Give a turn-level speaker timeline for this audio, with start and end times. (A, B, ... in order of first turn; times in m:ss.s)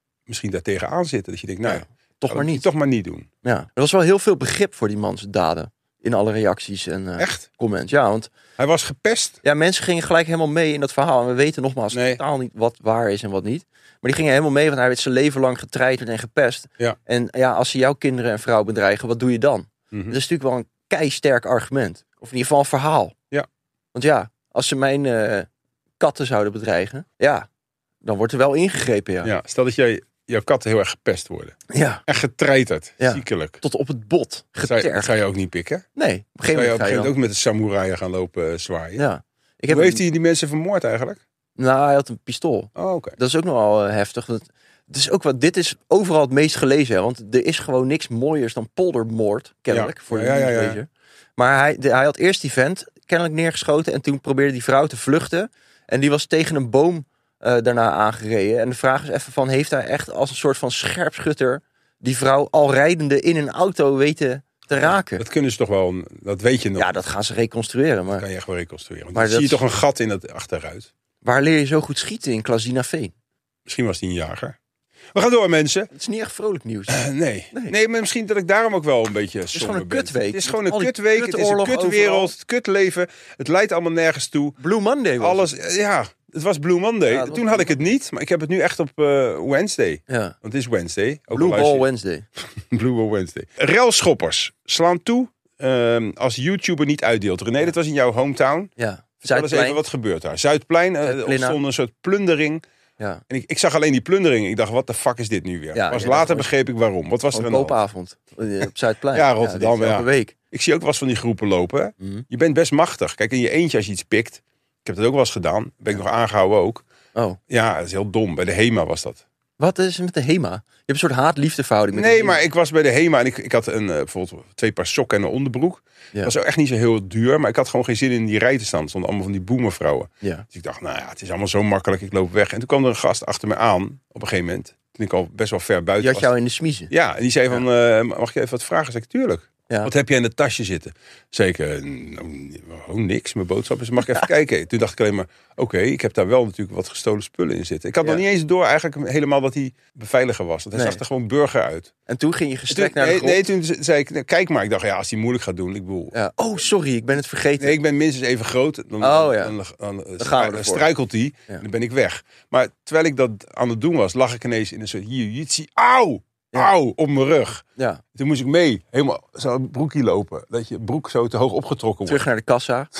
0:00.3-0:03.3 A
0:01.6-0:02.7 B
0:03.4-0:08.3 B
0:07.2-0:07.4 A
0:08.6-0:09.4 A
0:09.4-0:23.1 B
0:11.9-0:12.2 A
0:19.9-0:20.2 A
0:23.9-0:25.5 B
0:26.0-0:27.5 B
0:28.0-0:29.3 B
0:29.2-0:33.6 A
0:31.7-0:32.0 B
0:33.0-0:35.1 B
0:34.6-0:35.8 A
0:36.0-0:37.1 B
0:36.5-0:39.0 A
0:39.0-0:40.0 B
0:39.7-0:41.2 A
0:41.6-1:05.2 B
0:42.8-0:43.2 A
0:49.7-0:50.8 A
1:05.2-1:06.9 A
1:06.8-1:08.2 B
1:08.1-1:10.9 A
1:09.1-1:09.6 B
1:11.2-1:13.1 B
1:13.6-1:14.6 A
1:15.1-1:15.9 A
1:15.9-1:17.7 B
1:16.9-1:24.6 A
1:19.5-1:22.3 B
1:24.6-1:25.5 B
1:25.2-1:31.8 A
1:27.1-1:27.8 B
1:30.1-1:30.4 B
1:31.3-1:32.2 B
1:32.6-1:38.7 A
1:38.8-1:39.8 B
1:39.2-1:42.6 A
1:41.0-1:41.6 B
1:43.3-1:47.8 A
1:45.7-1:46.5 B
1:47.3-1:50.3 B
1:49.1-1:56.8 A
1:52.0-1:52.2 B
1:57.5-1:59.2 A
1:59.6-2:02.4 B
2:01.9-2:16.3 A
2:16.0-2:16.9 B
2:16.9-2:31.9 A
2:30.7-2:31.0 B
2:32.1-2:33.4 B
2:32.7-2:36.1 A
2:36.1-2:37.8 B
2:37.6-2:47.6 A
2:39.0-2:39.5 B
2:40.2-2:40.9 B
2:47.8-2:48.0 B
2:48.1-2:52.2 A
2:52.0-2:52.9 B